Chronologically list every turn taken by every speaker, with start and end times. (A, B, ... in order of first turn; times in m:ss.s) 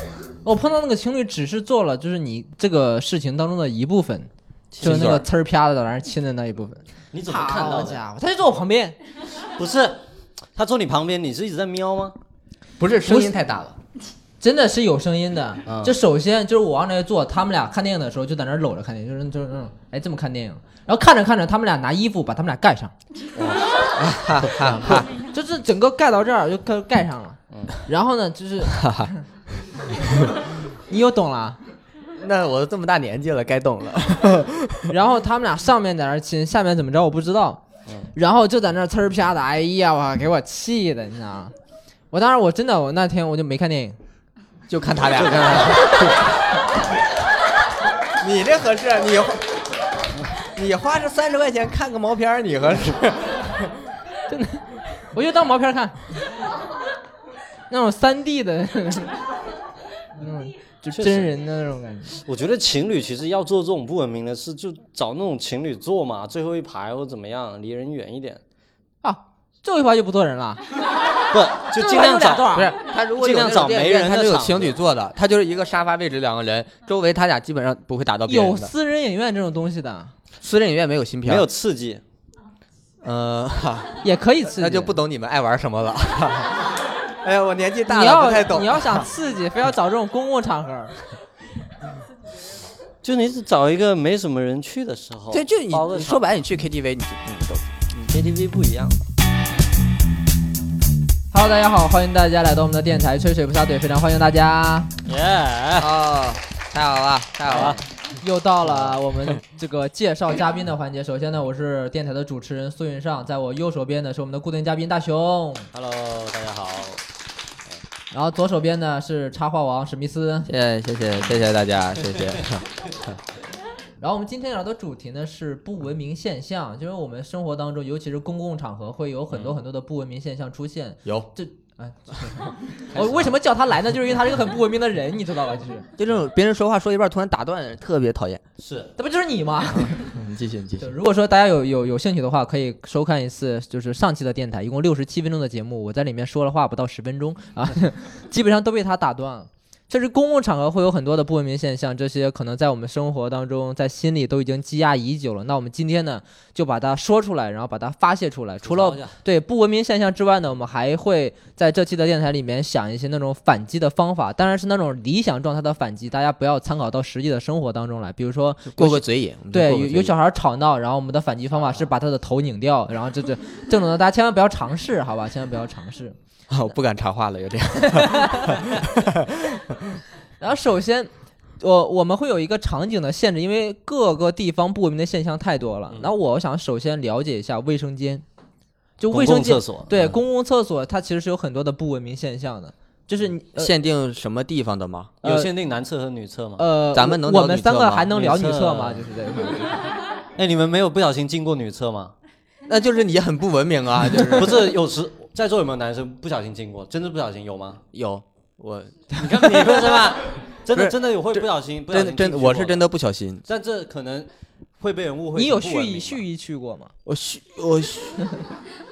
0:00.4-0:04.3 A
0:04.7-0:05.1 B
0:04.8-0:05.2 C
0:04.8-0:09.0 A
0:07.1-0:08.0 B
0:09.4-0:10.0 B
0:10.5-0:12.1 B
0:12.8-0:13.8 C
0:13.0-0:13.3 A
0:14.4-0:22.9 A
0:15.7-0:15.9 B
0:23.4-0:23.7 B
0:24.0-0:25.1 C
0:24.6-0:29.2 A
0:28.7-0:29.1 C
0:29.8-0:30.3 C
0:30.9-0:31.6 A
0:32.2-0:34.9 C
0:34.9-0:37.6 A
0:38.1-0:41.5 A
0:42.1-0:44.0 A
0:44.7-0:46.2 C
0:45.1-0:46.2 B
0:48.2-0:49.6 C
0:50.4-0:53.8 C
0:54.3-0:56.0 A
0:57.7-0:59.2 A
1:00.2-1:02.2 A
1:00.9-1:01.3 B
1:02.2-1:08.4 B
1:09.0-1:10.6 A
1:11.3-1:14.8 B
1:11.7-1:12.7 A
1:12.5-1:18.7 C
1:18.3-1:20.1 A
1:20.4-1:21.5 C
1:21.2-1:22.0 B
1:23.0-1:24.0 C
1:24.0-1:25.0 A
1:24.5-1:29.1 C
1:27.8-1:31.0 A
1:33.0-1:36.2 B
1:35.3-1:38.1 C
1:38.1-1:39.0 B
1:41.3-1:44.9 A
1:45.0-1:45.9 B
1:45.8-1:47.8 C
1:47.5-1:47.8 B
1:47.5-1:55.7 A
1:55.7-1:57.0 B
1:58.1-2:00.5 A
2:00.5-2:02.6 C
2:04.0-2:15.9 A
2:09.3-2:09.6 B
2:11.0-2:11.3 C
2:12.9-2:13.4 B
2:16.0-2:18.4 C
2:18.6-2:18.9 B
2:19.0-2:20.1 A
2:19.8-2:20.9 C
2:20.8-2:56.2 A
2:38.6-2:39.2 B
2:48.6-2:50.1 C
2:56.5-3:00.0 C
2:57.9-2:58.6 A
3:00.4-3:08.2 A
3:09.0-3:13.7 A
3:09.1-3:10.1 B
3:13.6-3:15.2 C
3:15.2-3:16.6 B
3:15.2-3:15.5 A
3:16.6-3:19.8 A
3:16.9-3:18.1 C
3:18.1-3:19.1 B
3:20.4-3:22.1 B
3:22.7-3:24.8 C
3:24.3-3:27.8 B
3:27.9-3:33.4 C
3:29.2-3:32.8 B
3:33.5-3:34.3 B
3:34.8-3:36.2 B
3:35.3-3:36.9 A
3:37.0-3:38.3 C